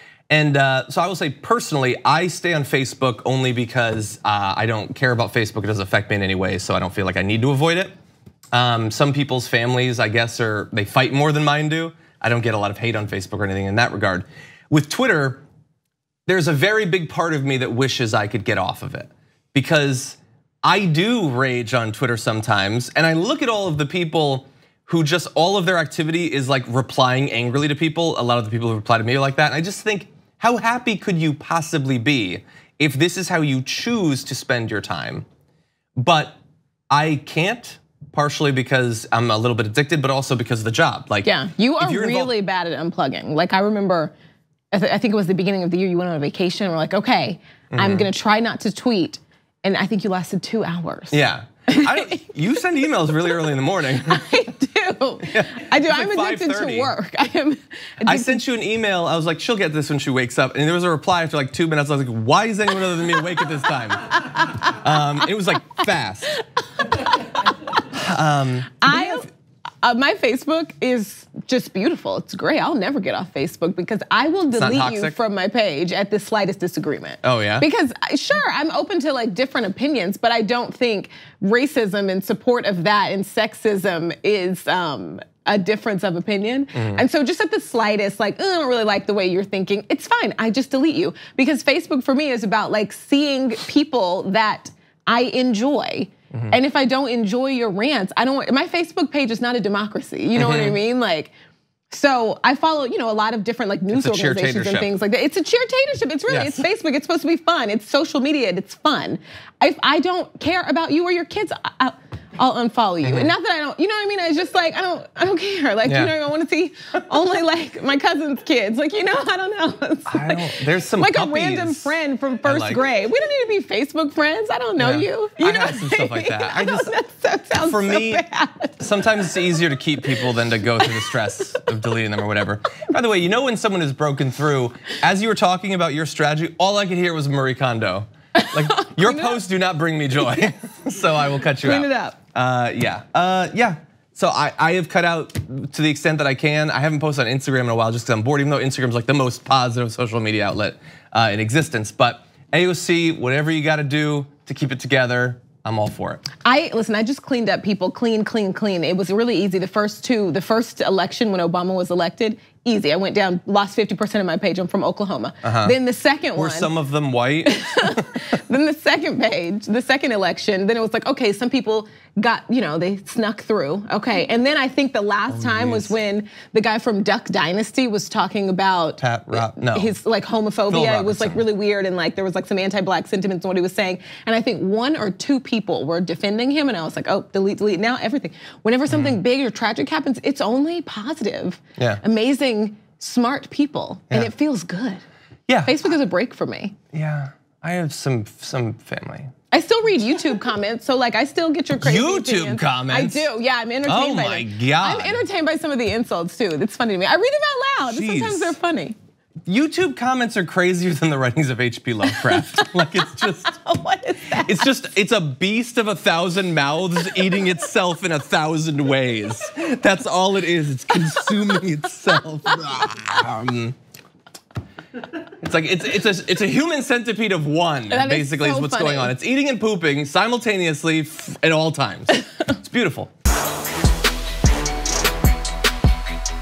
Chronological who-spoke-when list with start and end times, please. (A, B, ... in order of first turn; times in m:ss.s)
0:00.3-0:08.0 A
0:08.5-0:15.4 A
0:16.3-0:35.2 A
0:36.0-0:36.4 A
0:36.9-0:42.3 A
0:41.2-0:44.1 B
0:44.7-0:51.2 B
0:47.7-0:48.1 A
0:51.1-0:54.2 A
0:51.7-0:52.2 B
0:53.0-0:53.4 B
0:54.0-0:58.4 B
0:55.3-0:56.9 A
0:58.0-1:06.4 A
1:06.8-1:07.4 B
1:07.9-1:09.2 A
1:08.8-1:09.2 B
1:09.8-1:41.3 B
1:14.5-1:15.2 A
1:17.2-1:17.6 A
1:26.7-1:27.0 A
1:40.3-1:40.8 A
1:41.9-2:08.8 B
1:43.9-1:44.9 A
1:46.3-1:46.6 A
1:53.0-1:53.3 A
1:55.8-1:56.1 A
2:00.1-2:02.8 A
2:04.8-2:06.9 A
2:07.6-2:08.2 A
2:08.8-2:36.2 A
2:18.6-2:19.4 B
2:21.6-2:22.2 B
2:36.4-2:46.7 B
2:45.4-2:45.7 A
2:46.4-2:48.2 A
2:47.4-3:15.0 B
2:55.3-2:55.9 A
2:59.0-2:59.9 A
3:00.7-3:01.4 A
3:08.9-3:09.1 A
3:11.8-3:12.0 A
3:15.5-3:15.7 A
3:15.6-3:16.7 B
3:16.9-3:19.3 A
3:19.5-3:29.0 B
3:21.8-3:23.2 A
3:23.8-3:25.2 A
3:27.9-3:28.6 A
3:29.5-3:33.6 A
3:32.1-3:34.7 B
3:34.4-3:43.8 A
3:45.4-3:53.1 A
3:47.9-3:49.1 B